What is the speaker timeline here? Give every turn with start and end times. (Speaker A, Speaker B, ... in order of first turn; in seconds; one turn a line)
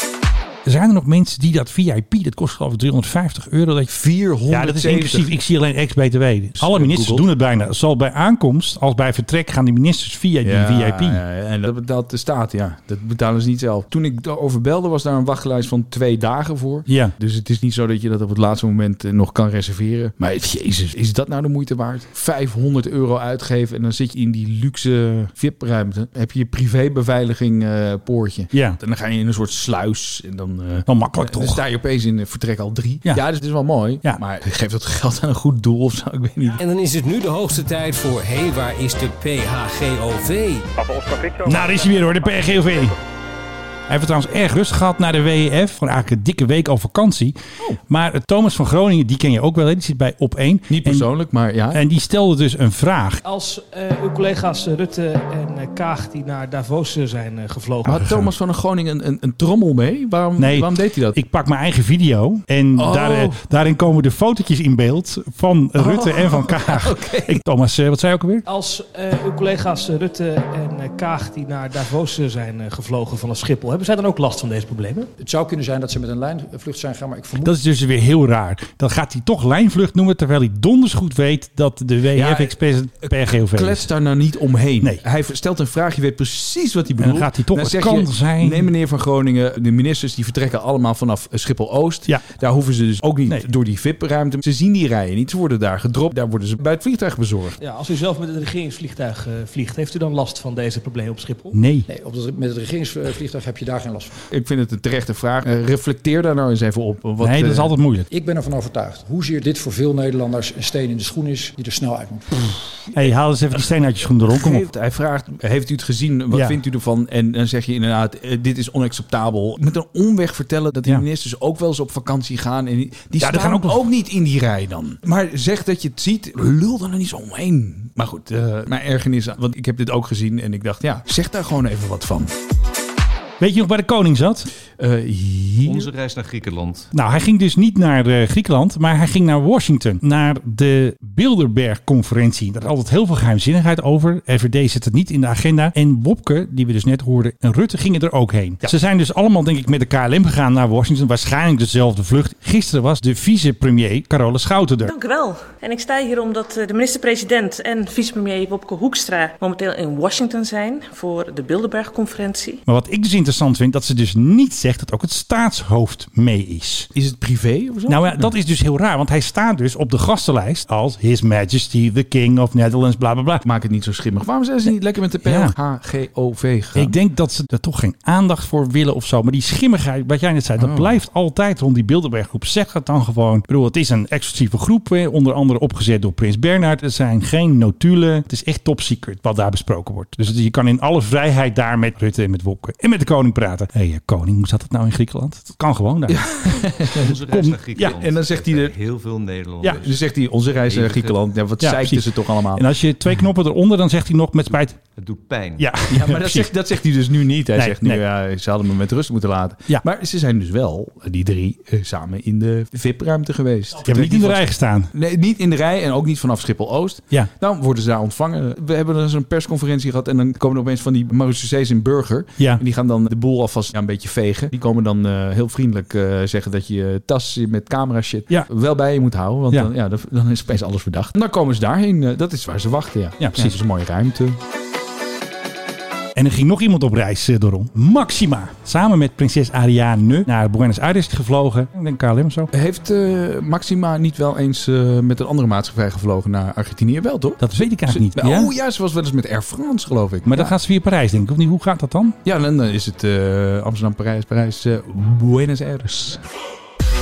Speaker A: 0.6-3.9
Speaker B: 3.9-5.3
Speaker A: 4.5-11.2
Speaker B: 6.6-7.2
Speaker B: 10.4-36.6
Speaker A: 30.9-31.6
Speaker C: 36.6-41.3
Speaker A: 41.4-43.0
Speaker A: 43.9-47.4
Speaker A: 47.9-51.1
Speaker B: 50.7-51.8
Speaker A: 51.7-53.2
Speaker D: 53.2-58.1
Speaker B: 57.9-61.2
Speaker A: 58.0-58.2
Speaker A: 60.4-68.4
Speaker B: 62.8-63.4
Speaker B: 65.8-67.4
Speaker D: 68.5-75.1
Speaker E: 75.2-77.5
Speaker A: 77.4-83.9
Speaker B: 82.1-97.6
Speaker A: 87.0-88.7
Speaker D: 97.6-101.6
Speaker A: 101.5-101.9
Speaker E: 101.9-104.1
Speaker B: 104.3-107.7
Speaker A: 107.2-108.1
Speaker E: 108.1-112.3
Speaker A: 112.9-114.7
Speaker B: 114.3-132.3
Speaker A: 123.2-123.8
Speaker A: 133.4-134.5
Speaker B: 134.8-135.9
Speaker F: 135.6-136.9
Speaker A: 136.9-154.9
Speaker G: 154.8-162.6
Speaker A: 162.7-166.9
Speaker B: 166.9-168.3
Speaker A: 167.9-173.4
Speaker B: 173.4-176.9
Speaker A: 175.2-175.5
Speaker A: 176.7-198.0
Speaker B: 180.6-180.9
Speaker B: 196.1-197.1
Speaker F: 196.9-200.0
Speaker B: 197.9-198.7
Speaker B: 199.7-202.7
Speaker F: 200.7-201.2
Speaker A: 201.6-204.8
Speaker F: 204.9-205.8
Speaker A: 205.6-206.5
Speaker B: 205.9-234.4
Speaker A: 207.6-208.0
Speaker A: 213.8-214.9
Speaker A: 233.2-233.6
Speaker A: 236.2-242.5
Speaker B: 242.5-250.5
Speaker A: 247.4-248.5
Speaker A: 250.3-252.2
Speaker B: 252.2-256.2